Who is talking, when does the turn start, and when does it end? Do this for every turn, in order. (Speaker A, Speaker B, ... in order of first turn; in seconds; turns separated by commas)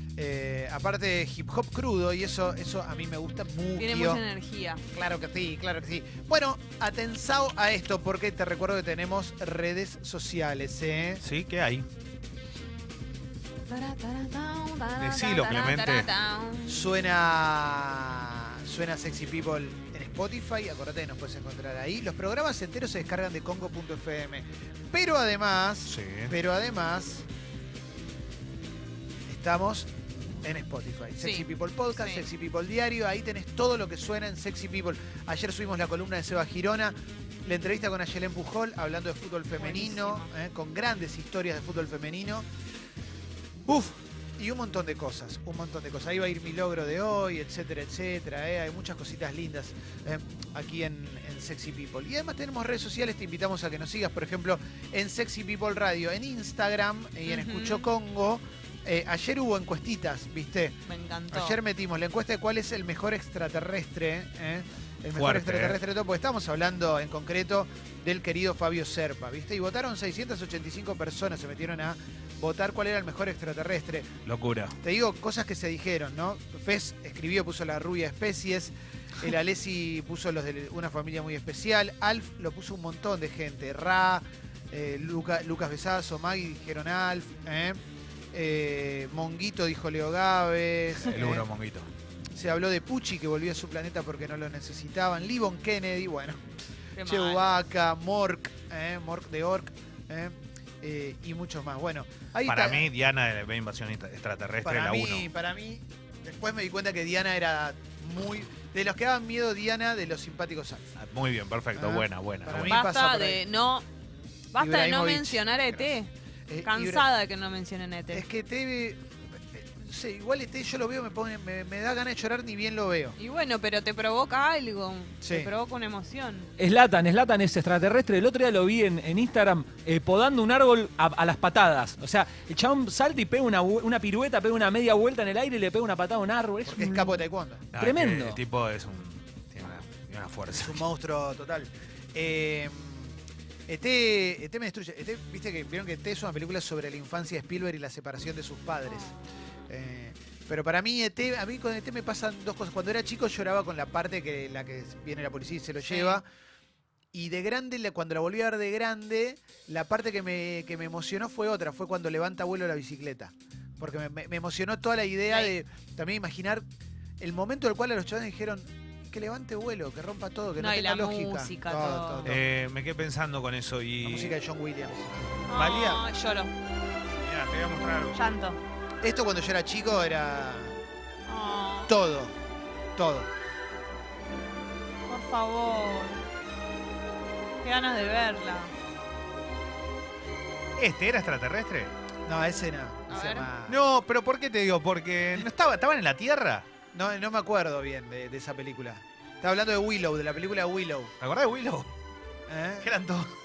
Speaker A: 0.1-4.2, Speaker B: 3.8-4.8, Speaker A: 4.9-11.2, Speaker C: 11.2-11.9, Speaker B: 13.7-16.8, Speaker C: 15.0-16.1, Speaker A: 16.7-27.3, Speaker C: 25.9-26.3, Speaker A: 29.3-29.9, Speaker A: 30.4-42.5, Speaker B: 31.2-32.2, Speaker B: 39.6-40.3, Speaker A: 43.6-60.8, Speaker B: 57.2-57.9, Speaker B: 60.9-61.5, Speaker A: 61.3-74.1, Speaker C: 65.1-65.8, Speaker C: 74.2-74.8, Speaker A: 74.8-87.8, Speaker A: 88.3-91.5, Speaker C: 91.0-91.9, Speaker A: 92.3-96.4, Speaker B: 97.0-97.5, Speaker A: 97.0-102.9, Speaker C: 102.4-105.3, Speaker A: 104.6-110.9, Speaker C: 111.0-112.8, Speaker A: 111.7-113.4, Speaker B: 112.7-113.8, Speaker B: 114.5-116.1, Speaker A: 114.6-116.0, Speaker A: 116.5-117.1, Speaker B: 116.6-118.2, Speaker A: 118.1-123.2, Speaker B: 123.2-126.5, Speaker A: 125.2-125.5, Speaker D: 126.6-137.2, Speaker A: 136.6-137.7, Speaker C: 137.7-140.8, Speaker D: 137.8-138.4, Speaker A: 140.5-149.1, Speaker B: 148.8-149.2, Speaker A: 149.7-156.2, Speaker B: 155.8-156.2, Speaker A: 157.1-166.6, Speaker B: 165.3-165.5, Speaker A: 167.2-172.4, Speaker B: 170.6-172.3, Speaker C: 172.2-174.3, Speaker A: 174.0-175.5, Speaker B: 175.5-176.5, Speaker C: 175.5-176.1, Speaker C: 177.2-178.2, Speaker B: 178.1-178.6, Speaker A: 179.0-180.8, Speaker B: 181.3-181.9, Speaker A: 181.9-182.3, Speaker A: 182.9-183.3, Speaker B: 185.1-186.2, Speaker B: 187.6-188.7, Speaker C: 190.8-191.9, Speaker A: 192.2-193.8, Speaker B: 193.1-193.5, Speaker C: 193.7-196.7, Speaker A: 196.9-201.1, Speaker C: 201.2-201.9, Speaker A: 202.5-202.9, Speaker C: 202.8-203.3